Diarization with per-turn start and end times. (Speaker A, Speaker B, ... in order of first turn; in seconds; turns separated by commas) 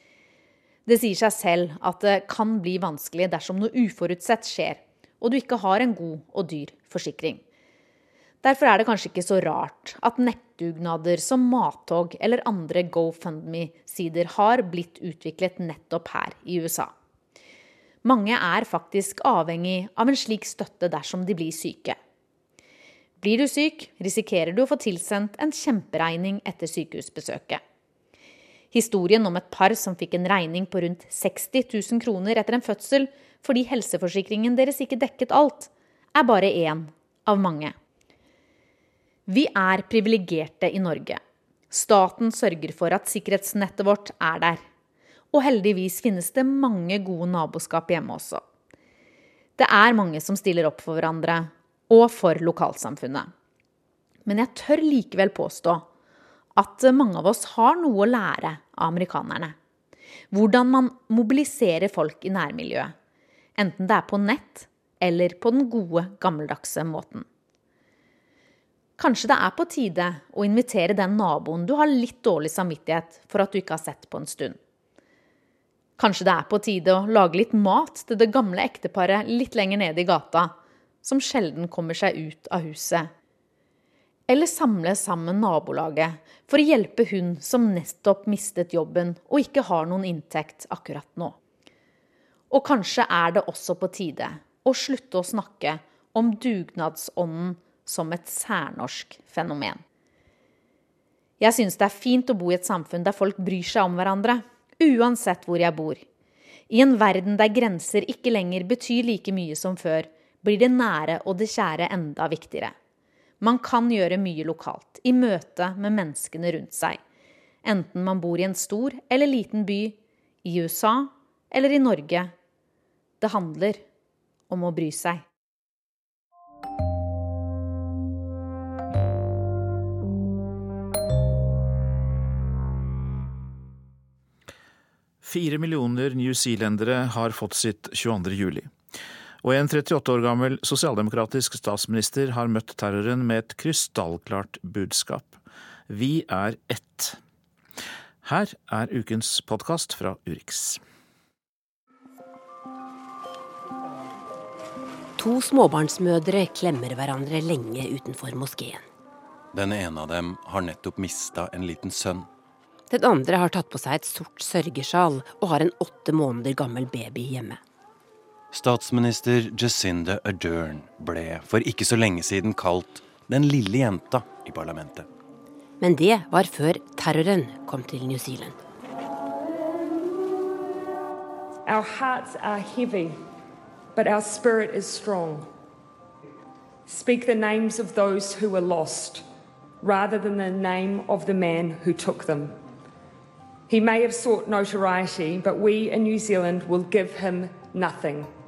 Speaker A: 0.8-7.4, Speaker A: 8.4-16.9, Speaker A: 18.0-22.0, Speaker A: 23.2-27.6, Speaker A: 28.7-37.7, Speaker A: 39.3-41.2, Speaker A: 41.7-44.6, Speaker A: 45.3-48.4, Speaker A: 49.6-53.3, Speaker A: 54.2-55.8, Speaker A: 56.5-59.5, Speaker A: 60.3-62.9, Speaker A: 63.6-67.2, Speaker A: 69.0-74.6, Speaker A: 76.0-83.1, Speaker A: 84.3-91.4, Speaker A: 92.5-99.8, Speaker A: 101.4-106.0, Speaker A: 106.7-112.7, Speaker A: 113.4-117.0, Speaker A: 117.6-122.3, Speaker A: 123.2-123.8, Speaker A: 124.5-125.2, Speaker B: 135.2-138.7, Speaker B: 139.4-147.2, Speaker B: 148.2-150.8, Speaker C: 155.2-158.8, Speaker D: 159.5-162.3, Speaker C: 162.9-167.6, Speaker D: 168.5-175.1, Speaker C: 175.8-178.6, Speaker E: 181.7-183.2, Speaker E: 183.9-185.5, Speaker E: 186.9-189.2, Speaker E: 189.8-192.6, Speaker E: 193.7-198.3